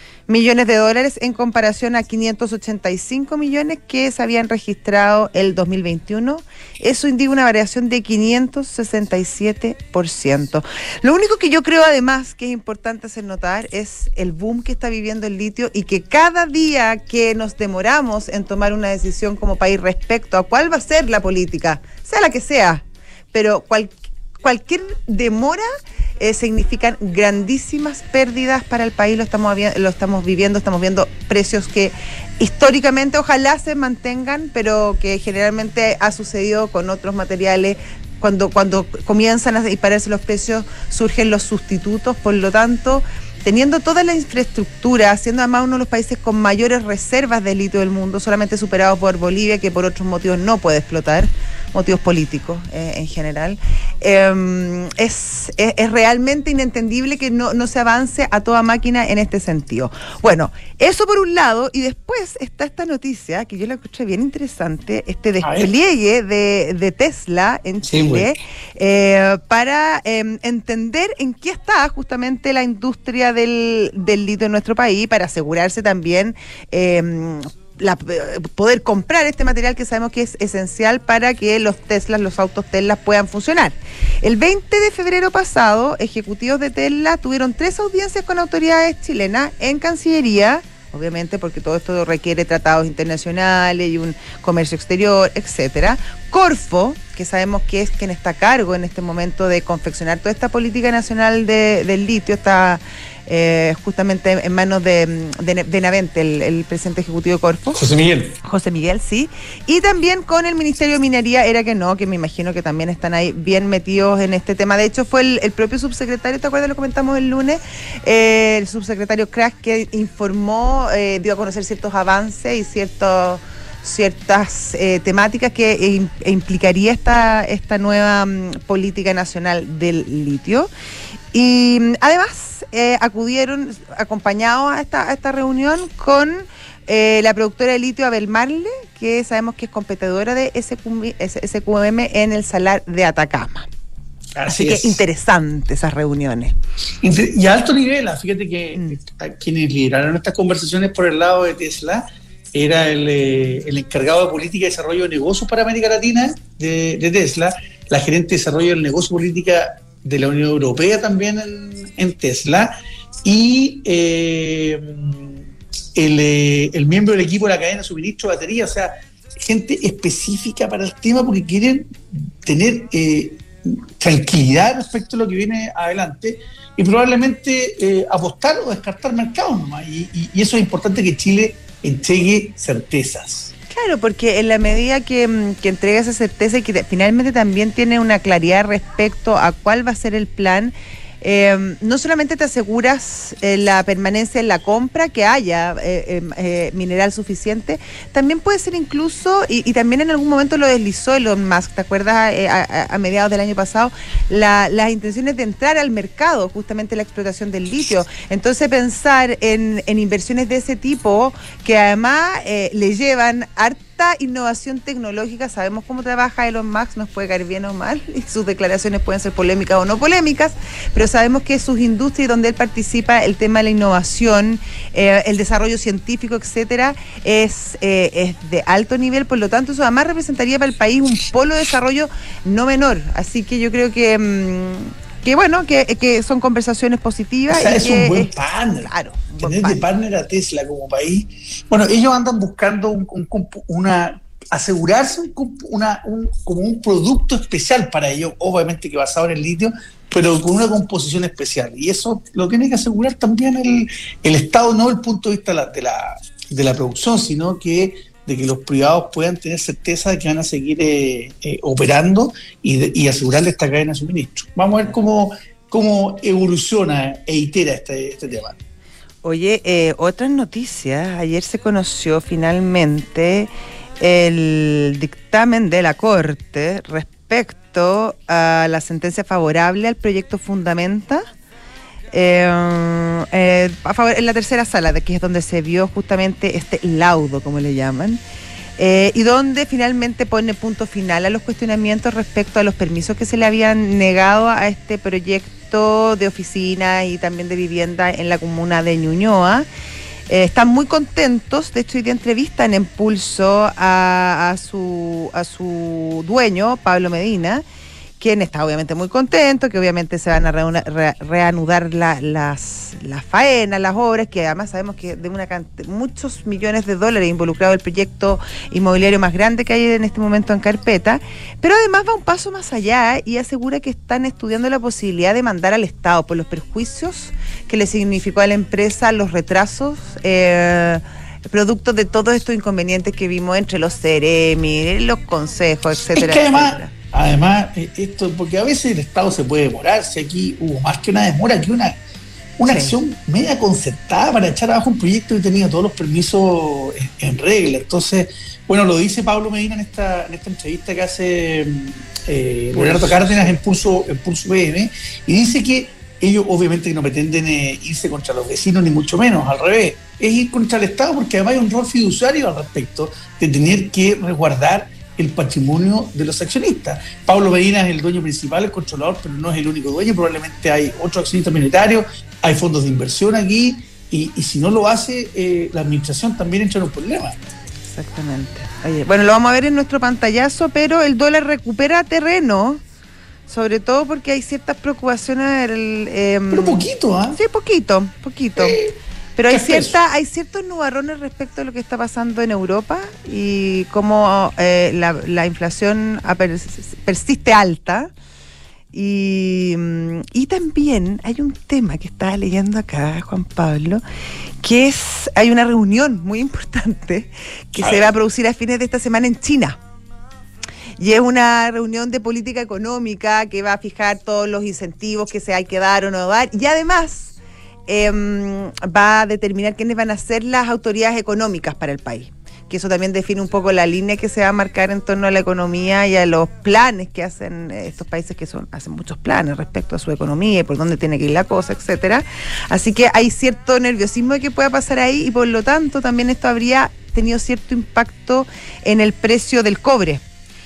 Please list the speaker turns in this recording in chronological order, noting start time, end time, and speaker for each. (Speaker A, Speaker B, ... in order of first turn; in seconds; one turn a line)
Speaker A: 0.3-25.7
Speaker A: 26.2-107.8
Speaker B: 65.4-65.7
Speaker B: 67.9-68.3
Speaker B: 107.7-108.4
Speaker A: 108.4-130.7
Speaker A: 131.3-143.7
Speaker B: 144.3-145.0
Speaker A: 144.5-146.6
Speaker B: 147.0-165.4
Speaker B: 165.9-183.5
Speaker A: 183.7-239.9
Speaker B: 237.5-268.6
Speaker A: 269.2-281.2
Speaker A: 282.1-288.2
Speaker A: 288.8-299.7
Speaker A: 300.3-307.6
Speaker A: 308.2-336.9
Speaker B: 336.1-342.0
Speaker B: 342.6-377.4
Speaker A: 342.7-343.0
Speaker A: 352.8-353.1
Speaker A: 377.9-382.8
Speaker A: 383.5-388.8
Speaker B: 386.5-387.4
Speaker B: 388.6-389.0
Speaker A: 389.4-398.1
Speaker B: 389.5-390.0
Speaker A: 398.9-404.0
Speaker A: 404.6-409.8
Speaker B: 407.8-408.1
Speaker A: 411.0-417.3
Speaker A: 417.9-440.2